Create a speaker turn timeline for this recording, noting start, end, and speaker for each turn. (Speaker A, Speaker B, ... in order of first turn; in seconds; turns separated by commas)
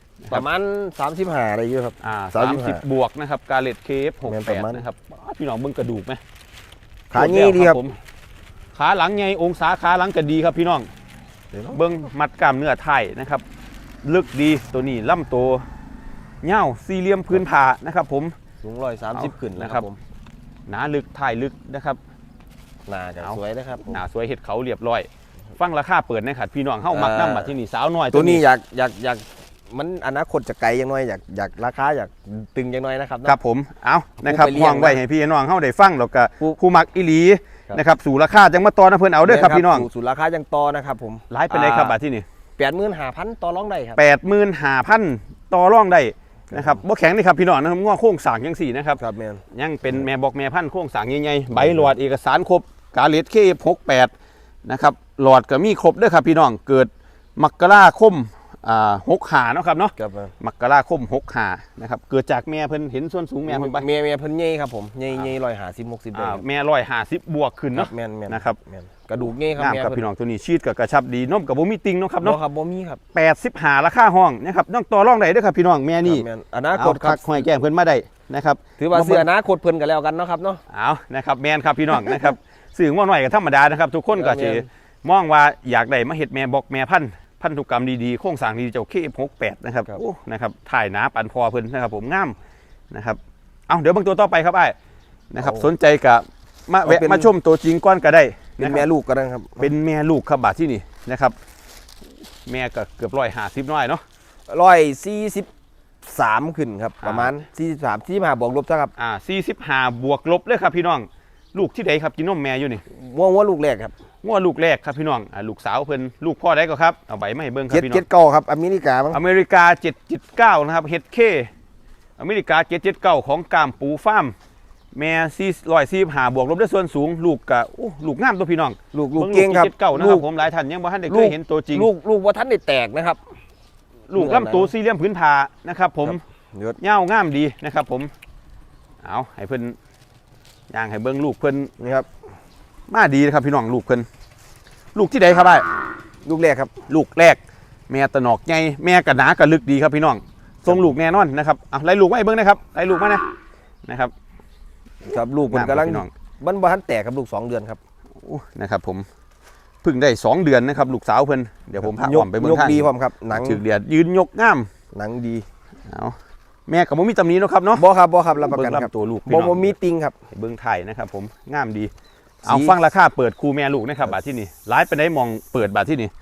Speaker A: 0.3-2.8, Speaker B: 2.0-6.2, Speaker A: 4.2-4.8, Speaker A: 7.1-7.9, Speaker B: 7.1-8.0, Speaker B: 8.7-10.9, Speaker A: 11.5-11.8, Speaker B: 11.7-13.4, Speaker B: 14.0-15.6, Speaker B: 16.4-18.3, Speaker A: 18.6-20.0, Speaker B: 19.1-19.9, Speaker B: 20.7-22.0, Speaker A: 22.9-24.0, Speaker B: 23.2-28.4, Speaker A: 26.9-27.5, Speaker A: 28.1-33.4, Speaker B: 33.2-39.9, Speaker A: 34.2-35.0, Speaker A: 39.2-41.9, Speaker B: 41.3-42.2, Speaker A: 42.6-44.0, Speaker B: 44.0-49.0, Speaker A: 46.5-46.8, Speaker A: 49.0-50.0, Speaker B: 49.5-54.1, Speaker A: 51.6-51.9, Speaker B: 54.6-63.9, Speaker A: 60.0-60.3, Speaker A: 63.5-66.4, Speaker B: 66.1-68.6, Speaker A: 67.7-70.0, Speaker B: 69.2-72.4, Speaker A: 72.2-73.0, Speaker B: 73.1-79.3, Speaker A: 76.0-77.2, Speaker A: 78.8-80.6, Speaker B: 80.7-92.3, Speaker A: 84.1-84.7, Speaker B: 92.9-94.8, Speaker B: 95.3-98.8, Speaker A: 95.4-95.7, Speaker A: 96.8-97.3, Speaker A: 98.6-99.7, Speaker B: 99.6-101.3, Speaker B: 102.5-104.0, Speaker A: 104.5-105.5, Speaker A: 106.0-108.9, Speaker B: 107.0-107.3, Speaker B: 109.0-112.8, Speaker A: 112.9-113.9, Speaker B: 114.2-118.0, Speaker A: 117.7-119.2, Speaker B: 119.1-121.5, Speaker B: 122.2-124.3, Speaker B: 124.9-131.9, Speaker A: 128.9-130.3, Speaker A: 131.1-133.2, Speaker B: 134.1-136.2, Speaker A: 134.1-134.7, Speaker A: 136.1-136.8, Speaker B: 136.8-138.1, Speaker B: 139.0-139.8, Speaker B: 140.7-141.7, Speaker A: 141.8-142.1, Speaker B: 142.9-144.1, Speaker B: 144.9-145.7, Speaker A: 146.2-146.7, Speaker B: 146.9-153.2, Speaker B: 153.8-154.1, Speaker A: 155.0-157.8, Speaker B: 155.5-156.1, Speaker B: 158.2-159.1, Speaker B: 159.8-164.7, Speaker A: 161.8-163.6, Speaker A: 164.9-165.4, Speaker B: 165.9-166.2, Speaker B: 166.7-167.8, Speaker A: 167.7-170.2, Speaker B: 168.4-169.7, Speaker B: 170.3-171.9, Speaker A: 172.4-172.8, Speaker B: 172.4-176.1